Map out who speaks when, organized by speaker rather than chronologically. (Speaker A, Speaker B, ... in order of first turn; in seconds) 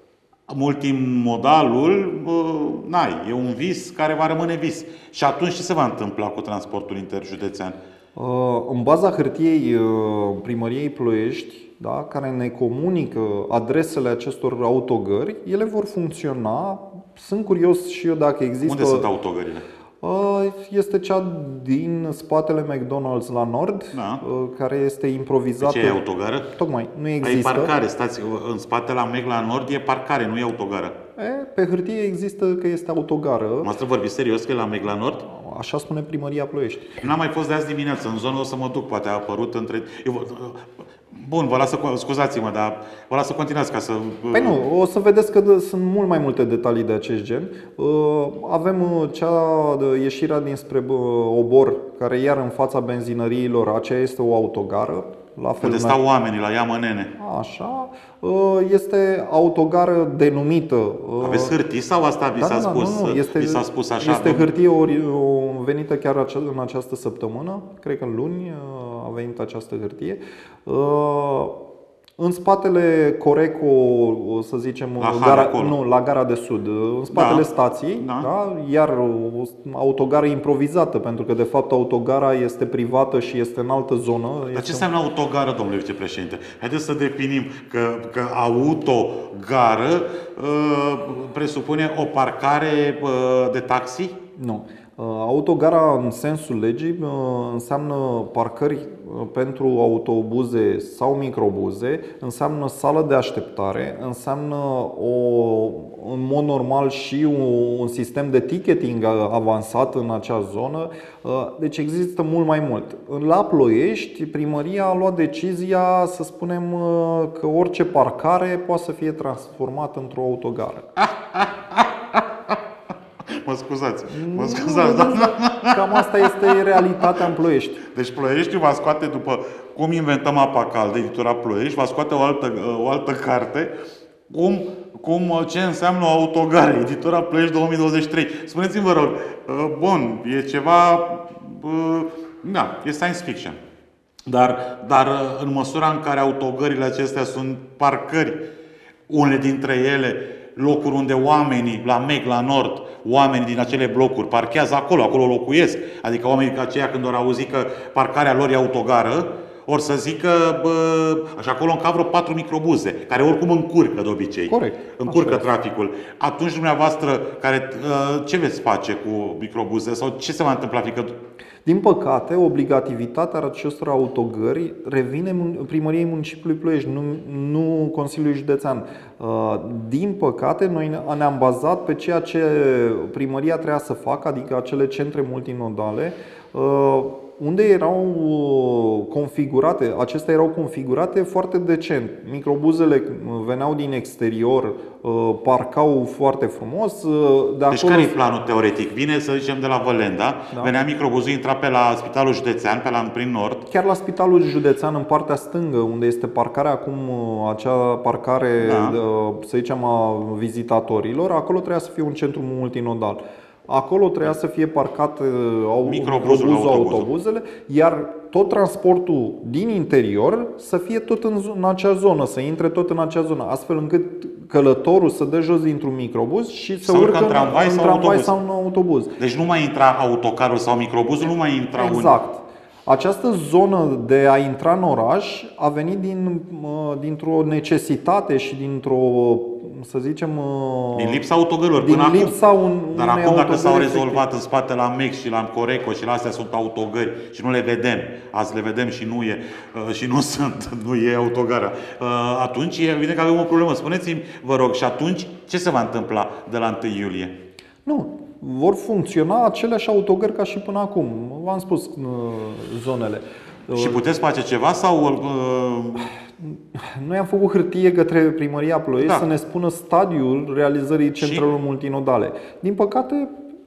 Speaker A: 0.5-7.8, 18.6-19.6, 23.9-24.2, 25.6-26.5, 27.2-31.0, 33.6-35.2, 37.0-44.6, 55.6-57.1, 61.2-64.5, 75.0-75.8, 77.1-77.5, 78.0-78.3, 84.5-94.2, 121.0-122.6, 123.3-127.2, 127.9-133.7, 134.3-143.6, 144.3-148.5, 149.1-171.2, 197.7-203.7, 208.6-209.0, 215.9-217.1, 226.8-228.3, 229.2-232.2, 240.9-242.3, 242.9-257.4, 263.7-266.1, 271.2-271.4
Speaker B: 8.2-19.1, 20.0-27.7, 31.2-33.7, 35.2-37.0, 44.3-56.0, 57.2-61.5, 62.4-71.5, 72.2-84.9, 94.4-121.0, 124.1-127.8, 164.5-165.4, 171.7-198.1, 203.7-229.2, 231.8-241.2, 241.8-244.2, 257.9-264.0, 266.4-273.3